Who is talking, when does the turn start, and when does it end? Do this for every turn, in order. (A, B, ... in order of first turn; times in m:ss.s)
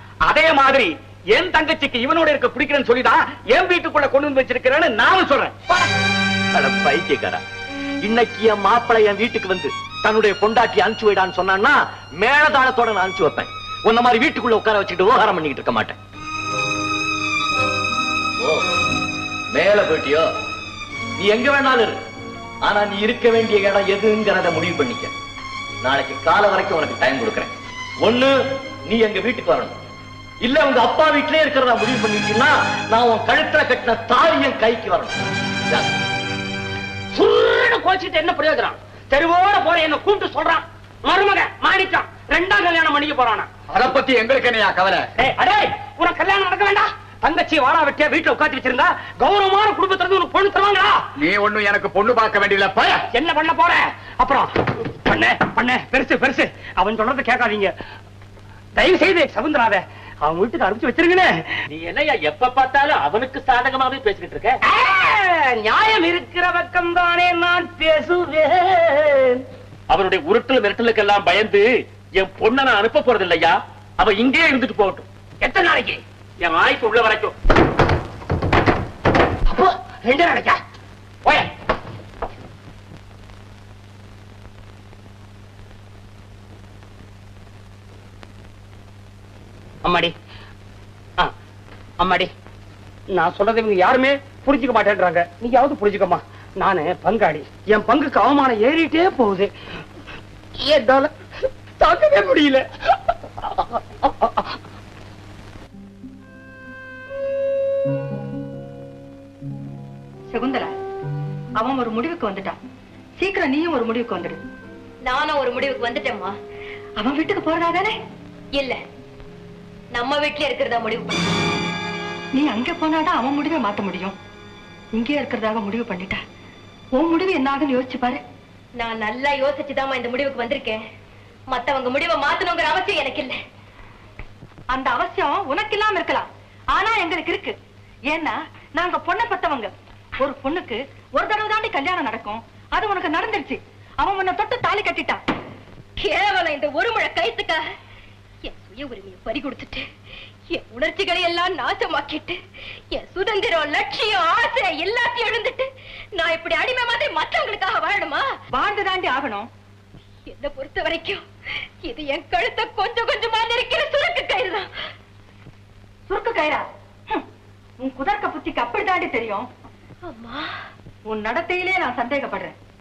0:00.3-0:05.6 A
0:06.5-0:07.4 B
0:08.0-0:16.0 B
0:18.4-0:18.6 B
0:19.5-0:20.3 B
0:21.2-0:22.0 B
0:22.6-0:25.1 B
0:25.8-0:28.3 B
0:28.9-0:29.8 B
0:30.4-0:35.2 B
0:37.1-0:43.5 C
0:43.7-0:45.1 A
0:45.2-0:51.0 C
0:51.2-0:53.0 A
0:53.1-0:57.7 C
0:58.8-1:01.3 C
1:01.7-1:04.6 D
1:04.7-1:09.4 C
1:09.9-1:15.1 D
1:15.4-1:16.0 C
1:16.4-1:17.3 D
1:19.5-1:20.6 C
1:21.2-1:21.5 C
1:29.8-1:30.1 C
1:32.0-1:32.3 C
1:33.1-1:39.5 C
1:40.6-1:41.1 C
1:41.8-1:42.6 C
1:43.5-1:44.5 C
1:50.3-1:50.7 E
1:51.6-1:52.6 E
1:53.2-1:54.4 E
1:55.1-1:56.3 F
1:57.0-1:58.0 E
2:00.0-2:01.3 F
2:02.4-2:04.2 E
2:04.9-2:06.2 E
2:07.0-2:08.2 E
2:08.8-2:10.8 F
2:11.5-2:13.4 F
2:14.7-2:17.5 E
2:18.1-2:25.2 E
2:26.0-2:27.6 F
2:28.4-2:29.8 F
2:30.5-2:32.4 F
2:32.9-2:35.6 F
2:36.2-2:38.3 F
2:38.5-2:39.5 E
2:40.3-2:41.2 F
2:41.8-2:44.7 F
2:46.1-2:47.2 E
2:47.8-2:49.5 E
2:50.0-2:50.6 F
2:51.1-2:52.6 E